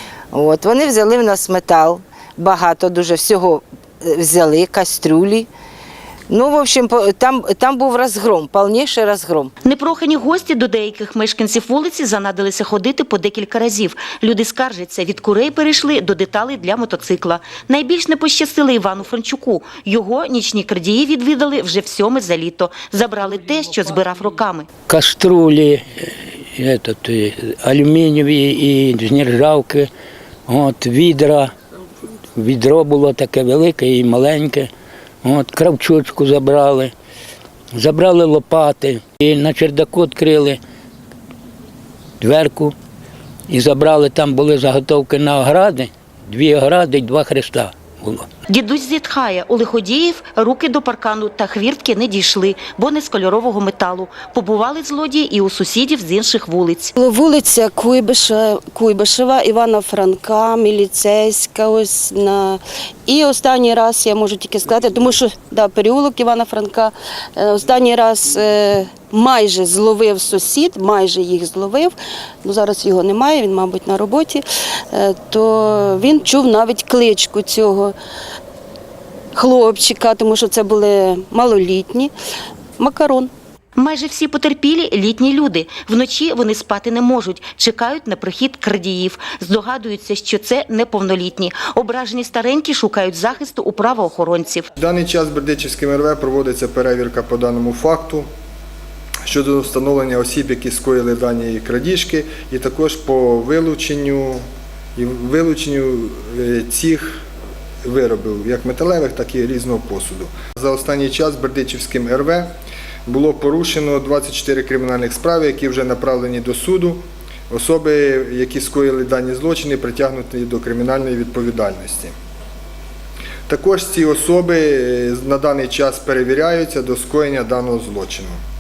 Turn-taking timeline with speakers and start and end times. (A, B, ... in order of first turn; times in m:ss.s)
0:00.3-0:05.5 A
0:06.3-0:09.5 A
0:09.6-0:24.7 B
0:24.9-0:25.8 C
0:26.6-0:29.9 C
0:30.5-0:31.5 C
0:32.4-0:34.7 C
0:35.2-0:36.9 C
0:37.7-0:40.6 C
0:42.2-0:42.7 C
0:43.5-0:48.3 C
0:48.5-0:57.0 B
0:57.0-1:17.9 D
1:19.4-1:22.1 D
1:22.8-1:23.3 D
1:23.8-1:34.7 B
1:34.8-1:38.3 E
1:39.3-1:44.4 E
1:45.0-1:47.2 E
1:47.8-1:52.5 E
1:53.1-2:02.1 E
2:03.5-2:08.4 E